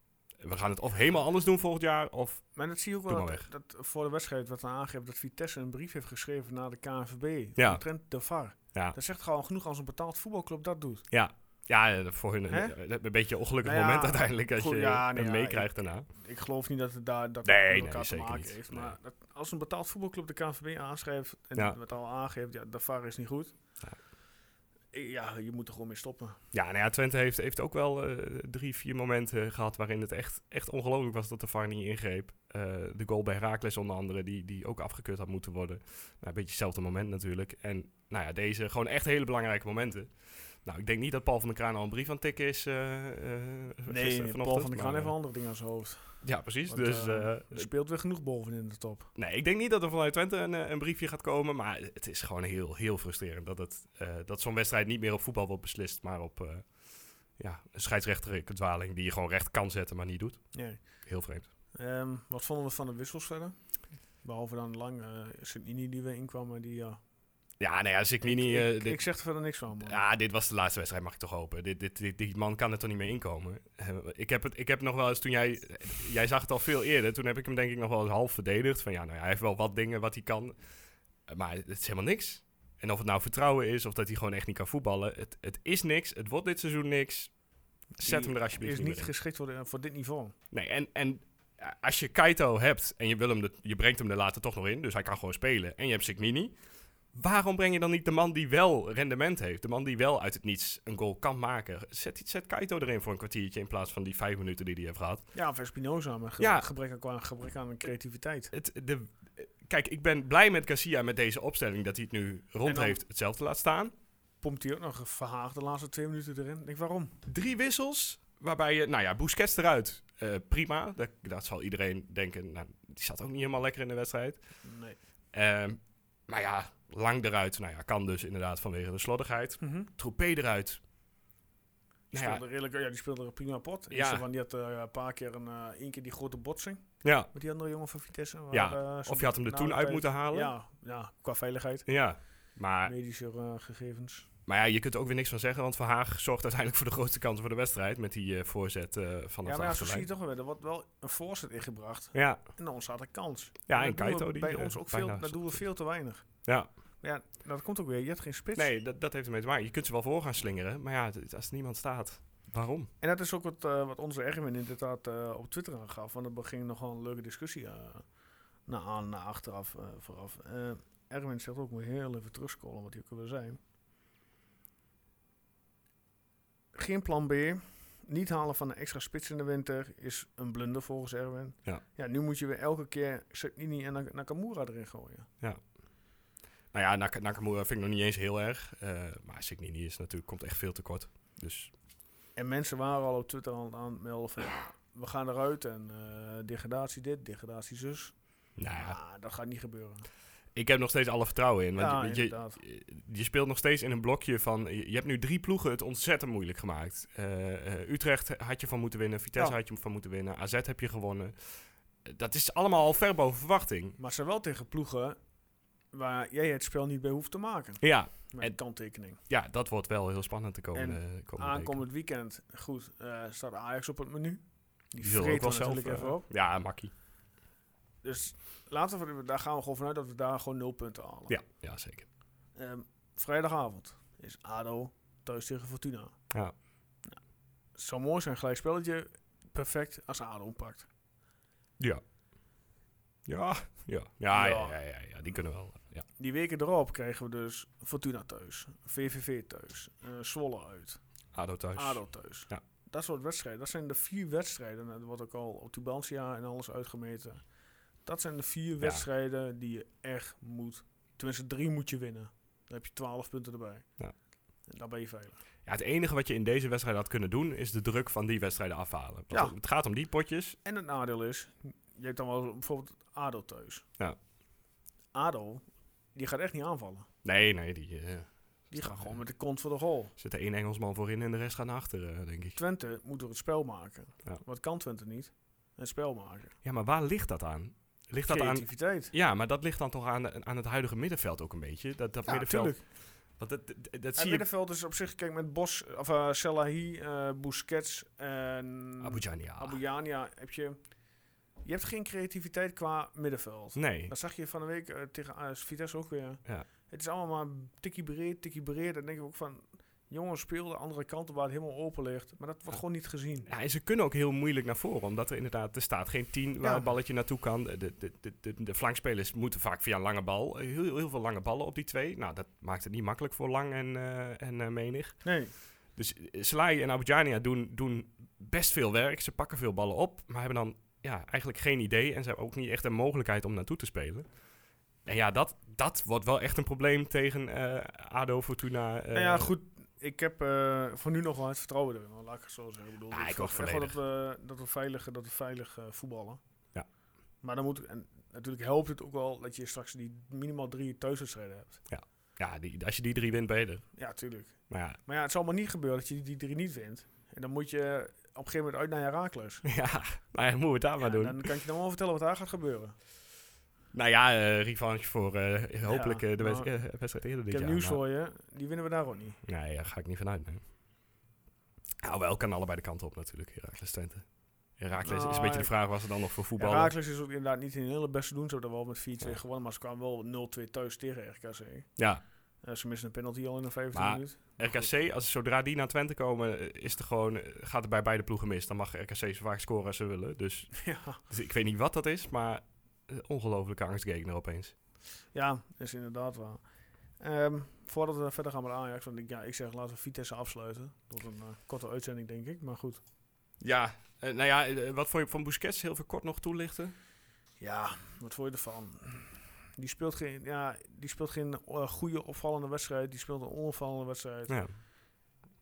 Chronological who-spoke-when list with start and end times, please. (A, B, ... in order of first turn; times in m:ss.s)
0:00.4-0:02.5 A
0:02.5-0:11.0 B
0:03.1-0:03.5 A
0:07.6-0:07.8 A
0:11.1-0:16.1 A
0:12.5-0:12.8 B
0:13.6-0:23.5 B
0:17.4-0:19.0 A
0:24.9-0:26.4 B
0:26.5-0:45.1 A
0:43.9-0:49.1 B
0:46.2-0:47.7 A
0:49.2-0:56.7 A
0:57.4-1:01.5 A
1:00.5-1:00.8 B
1:01.7-1:03.6 B
1:04.2-1:07.0 B
1:07.6-1:09.1 A
1:08.2-1:10.0 B
1:09.8-1:20.5 A
1:21.3-1:27.3 A
1:28.0-1:30.3 B
1:28.0-1:29.1 A
1:30.5-1:36.5 A
1:37.1-1:45.3 A
1:45.3-1:48.5 B
1:46.4-1:46.7 A
1:48.5-1:53.9 A
1:52.6-1:53.0 B
1:54.4-1:57.2 B
1:57.2-2:04.4 A
2:04.6-2:05.0 B
2:05.3-2:10.8 A
2:09.6-2:09.9 B
2:12.1-2:12.4 A
2:12.1-2:21.9 B
2:13.9-2:14.2 A
2:17.0-2:17.3 A
2:18.5-2:20.5 A
2:21.8-2:22.9 A
2:22.8-2:24.3 B
2:24.4-2:30.1 A
2:29.4-2:36.4 B
2:32.1-2:32.4 A
2:33.7-2:35.6 A
2:37.0-2:38.7 B
2:38.6-2:42.9 A
2:43.0-2:48.0 B
2:48.6-2:53.6 B
2:56.7-3:05.3 B
3:06.7-3:11.7 A
3:12.4-3:18.1 B
3:18.6-3:19.0 A
3:18.7-3:20.1 B
3:20.5-3:34.0 A
3:21.8-3:22.6 B
3:34.0-3:35.2 B
3:35.9-3:39.2 B
3:37.8-3:38.6 A
3:39.3-3:41.8 A
3:40.7-3:46.3 B
3:45.0-3:46.9 A
3:48.0-3:51.3 B
3:51.3-3:52.1 A
3:52.6-3:56.2 B
3:57.7-4:00.9 B
4:03.2-4:06.1 A
4:04.3-4:04.8 B
4:06.2-4:11.0 B
4:11.3-4:12.6 A
4:11.8-4:17.4 B
4:18.0-4:23.9 B
4:24.7-4:25.4 B
4:25.6-4:30.6 A
4:30.6-4:33.8 B
4:35.1-4:37.1 B
4:37.2-4:39.1 A
4:38.7-4:40.1 B
4:40.2-4:42.6 A
4:42.6-4:46.6 B
4:46.6-4:52.8 A
4:48.2-4:49.1 B
4:52.2-4:52.8 B
4:53.4-4:54.4 A
4:54.2-5:00.8 B
4:59.0-4:59.8 A
5:01.6-5:13.5 B
5:03.8-5:04.1 A
5:13.4-5:25.3 A
5:16.6-5:16.8 B
5:25.2-5:25.5 B
5:25.9-5:34.3 A
5:35.0-5:39.5 A
5:39.1-5:46.4 B
5:43.1-5:43.9 A
5:47.4-5:51.8 B
5:51.9-5:53.8 A
5:54.0-5:59.6 B
5:54.7-5:55.0 A
5:59.6-6:01.6 A
6:01.0-6:02.9 B
6:03.9-6:08.0 A
6:05.8-6:06.7 B
6:07.5-6:09.4 B
6:09.4-6:10.6 A
6:12.0-6:14.2 A
6:14.8-6:16.9 A
6:15.0-6:15.7 B
6:16.6-6:21.9 B
6:22.0-6:22.2 A
6:22.6-6:24.9 B
6:23.9-6:34.7 A
6:30.8-6:31.2 B
6:35.3-6:36.6 B
6:37.2-6:43.0 B
6:43.6-6:46.9 A
6:47.6-6:54.6 B
6:54.5-6:54.8 A